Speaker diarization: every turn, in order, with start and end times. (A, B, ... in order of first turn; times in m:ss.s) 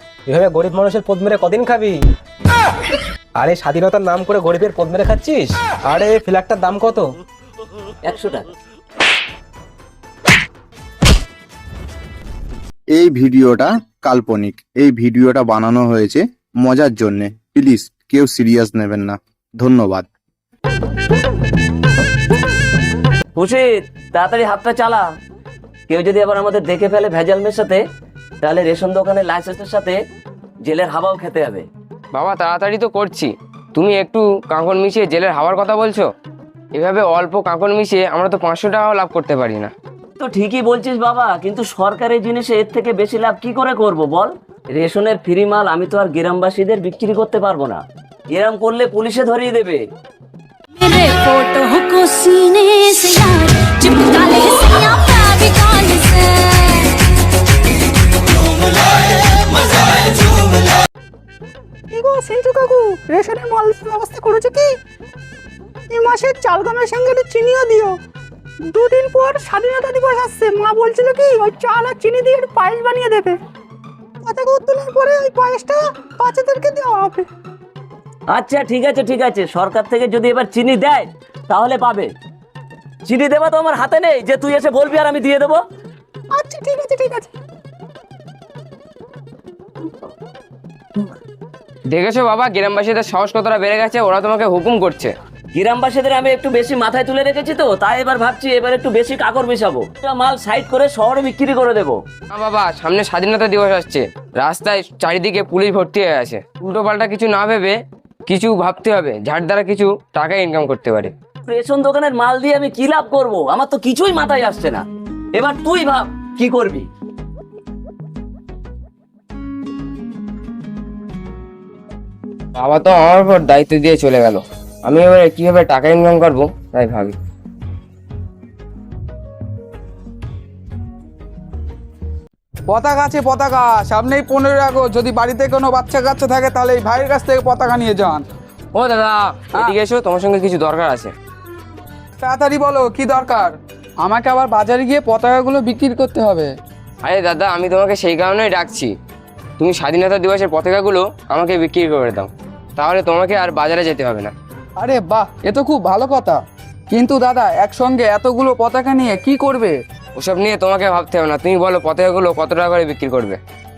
0:00.3-0:02.0 A
0:03.4-0:07.0 A
0:08.0-0:08.5 B
0:12.9-0:20.1 C
0:23.4-0:25.0 B
0:25.9-0:27.8 B
0:28.4-0:30.0 B
0:30.6-0:31.7 B
0:32.1-0:36.1 D
0:36.7-0:39.7 D
0:40.2-0:47.8 B
0:48.3-0:49.8 B
0:50.8-0:56.9 E
1:01.9-1:04.7 F
1:05.9-1:07.9 F
1:08.7-1:13.4 F
1:14.2-1:17.2 F
1:18.3-1:22.1 B
1:23.1-1:25.6 B
1:26.3-1:27.3 F
1:31.9-1:35.1 D
1:35.5-1:42.0 B
1:42.3-1:47.8 D
1:48.3-1:51.1 D
1:51.4-1:54.8 B
1:55.3-1:56.9 B
2:02.5-2:07.2 D
2:12.7-2:18.3 G
2:18.7-2:21.1 D
2:19.5-2:19.8 G
2:22.2-2:26.5 G
2:27.0-2:28.9 D
2:29.6-2:34.3 D
2:34.8-2:39.8 G
2:40.2-2:43.4 D